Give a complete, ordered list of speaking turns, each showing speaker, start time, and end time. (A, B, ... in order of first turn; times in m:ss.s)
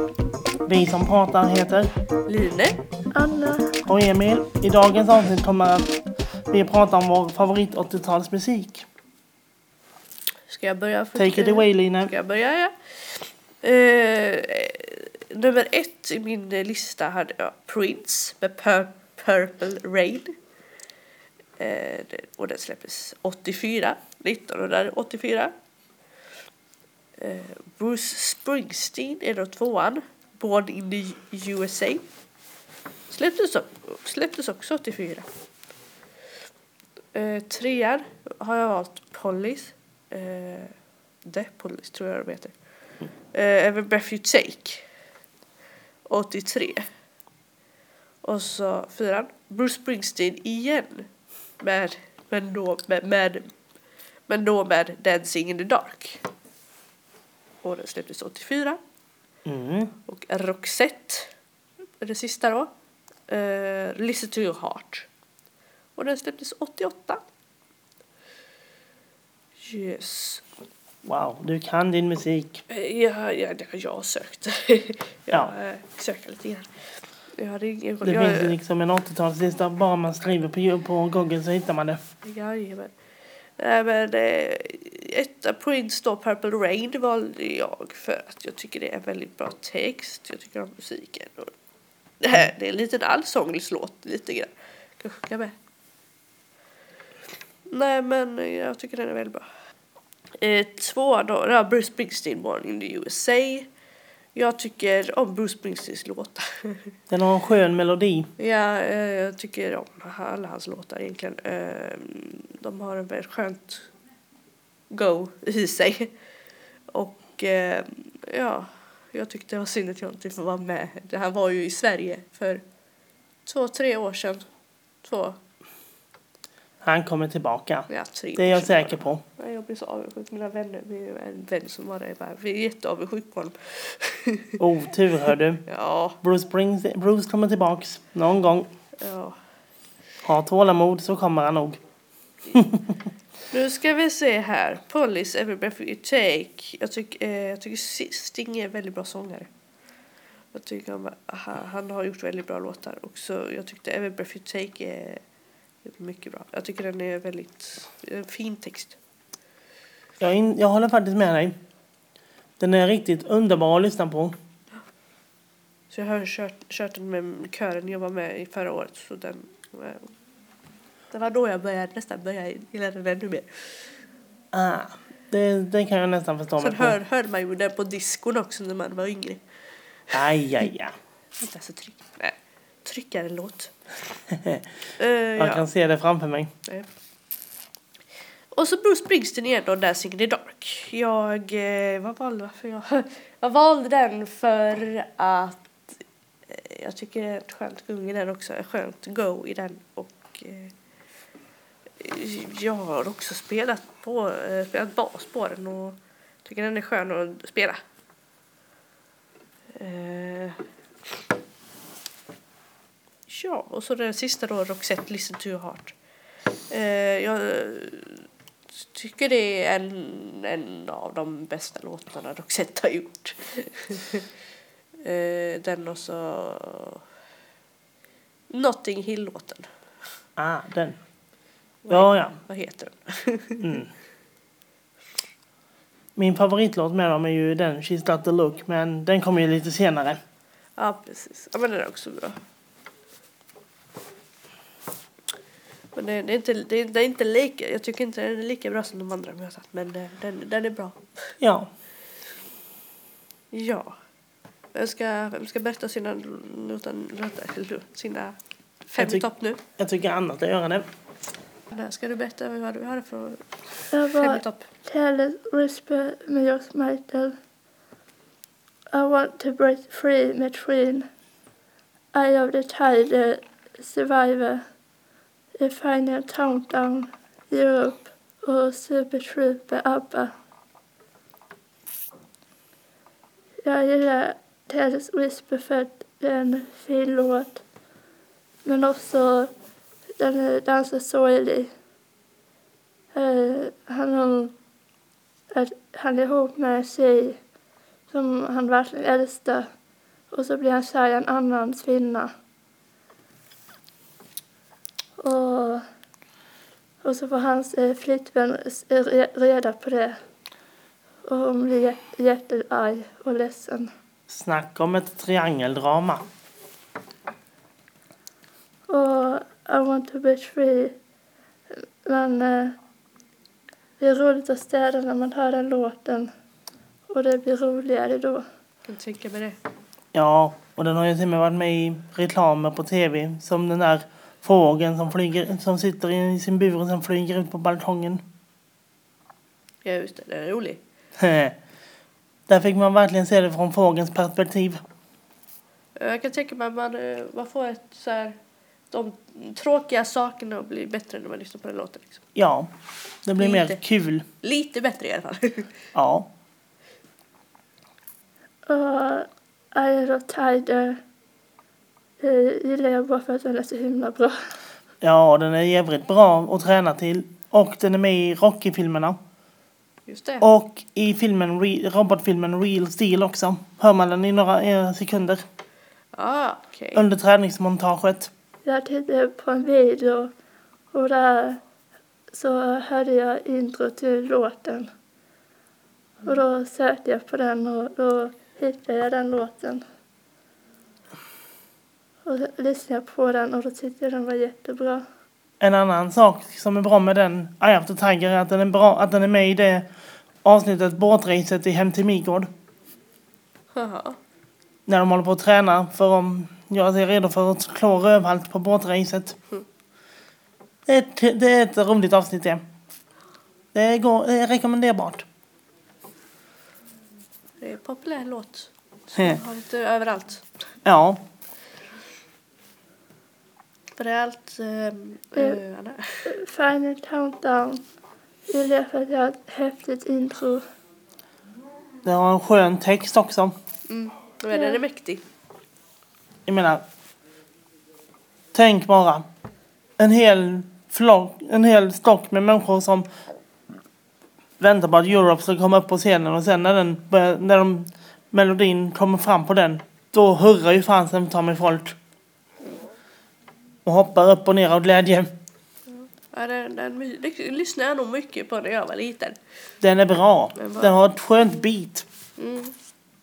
0:00.6-0:01.9 A
0:02.3-0:02.8 B
0:03.1-0:03.7 C
0:03.8-0:05.9 A
0:06.5-0:08.8 A
0:10.5-0:20.3 B
0:11.1-0:12.1 A
0:21.6-0:25.5 B
0:27.2-0:32.0 B
0:33.1-0:35.3 B
0:37.1-0:40.7 B
0:41.2-0:42.5 B
0:43.3-0:44.8 B
0:46.0-0:46.9 B
0:48.2-0:51.1 B
0:51.6-0:53.4 B
0:54.3-0:56.2 B
0:57.6-0:58.8 B
0:59.4-0:59.9 A
1:00.1-1:01.3 B
1:02.0-1:02.7 B
1:03.3-1:05.1 B
1:06.0-1:07.2 B
1:09.6-1:10.4 B
1:11.0-1:12.6 A
1:12.7-1:16.7 B
1:17.3-1:18.6 B
1:18.0-1:22.0 A
1:22.2-1:22.9 B
1:23.6-1:31.5 B
1:32.2-1:35.5 B
1:37.7-1:39.4 B
1:40.4-1:43.7 B
1:44.3-1:46.9 B
1:47.1-1:48.3 A
1:48.4-1:53.9 B
1:54.9-1:56.1 B
1:56.9-2:02.6 B
2:03.4-2:04.4 B
2:05.0-2:05.4 B
2:06.8-2:09.2 A
2:07.9-2:14.6 B
2:14.6-2:15.6 A
2:15.7-2:16.2 B
2:16.2-2:18.7 A
2:19.0-2:19.4 B
2:20.2-2:21.8 A
2:22.5-2:22.9 A
2:23.5-2:29.5 B
2:30.5-2:35.2 B
2:35.8-2:39.0 B
2:40.2-2:41.6 A
2:42.6-2:44.4 A
2:45.9-2:50.1 B
2:51.1-2:53.5 B
2:54.5-2:57.0 A
2:56.6-2:59.4 B
3:00.1-3:00.9 A
3:01.4-3:03.7 B
3:04.3-3:04.6 A
3:05.0-3:05.7 B
3:05.4-3:06.5 A
3:08.5-3:15.7 B
3:16.5-3:20.7 B
3:22.0-3:27.8 B
3:29.7-3:30.6 B
3:33.3-3:35.9 B
3:36.7-3:38.2 B
3:38.8-3:44.2 B
3:45.0-3:47.0 B
3:48.5-3:49.7 B
3:50.4-3:51.0 A
3:51.8-3:53.7 B
3:51.9-3:52.4 A
3:53.6-3:53.9 A
3:56.2-4:00.2 A
4:00.8-4:02.4 B
4:05.9-4:11.3 B
4:11.4-4:11.7 A
4:13.5-4:13.9 B
4:14.7-4:18.3 B
4:18.8-4:19.6 B
4:19.0-4:20.8 A
4:21.7-4:24.6 B
4:23.9-4:27.4 C
4:28.9-4:31.1 C
4:32.1-4:34.6 C
4:35.6-4:40.3 C
4:43.6-4:47.6 C
4:48.6-4:49.5 C
4:50.2-4:51.7 C
4:53.1-4:54.5 C
4:55.5-4:57.4 C
4:58.1-4:59.7 C
5:00.3-5:02.3 C
5:05.2-5:05.8 C
5:07.0-5:10.2 C
5:11.2-5:13.9 C
5:14.3-5:16.2 A
5:18.9-5:20.9 C
5:21.7-5:22.8 C
5:24.0-5:26.3 C
5:27.1-5:28.4 C
5:28.8-5:29.6 B
5:30.1-5:38.2 A
5:39.8-5:40.8 B
5:41.2-5:41.6 A
5:42.5-5:44.8 A
5:46.0-5:48.3 B
5:48.9-5:52.2 B
5:52.3-5:52.7 A
5:53.2-5:54.2 A
5:53.4-5:53.8 B
5:54.4-5:55.7 B
5:55.9-5:56.3 A
5:58.7-6:01.0 C
6:02.2-6:04.4 C
6:05.0-6:09.2 A
6:10.1-6:10.4 B
6:10.4-6:15.4 A
6:16.1-6:17.0 B
6:16.9-6:18.3 A
6:18.6-6:20.3 C
6:20.9-6:21.6 C
6:22.3-6:24.9 C
6:26.2-6:29.8 C
6:32.2-6:35.0 C
6:35.6-6:39.9 A
6:40.4-6:42.5 A
6:43.7-6:44.2 B
6:44.9-6:49.4 A
6:50.8-6:52.6 A
6:53.7-6:55.2 A
6:57.6-7:00.5 B
6:59.1-6:59.4 A
7:00.8-7:01.2 A
7:04.0-7:06.4 B
7:06.2-7:07.8 C
7:08.5-7:10.6 C
7:12.0-7:13.5 A
7:13.9-7:15.2 B
7:14.5-7:14.8 C
7:16.4-7:16.8 A
7:18.5-7:19.2 A
7:20.0-7:23.1 A
7:24.6-7:32.0 A
7:33.8-7:35.3 A
7:35.9-7:39.4 B
7:39.8-7:42.0 A
7:40.6-7:41.0 B
7:42.4-7:42.7 B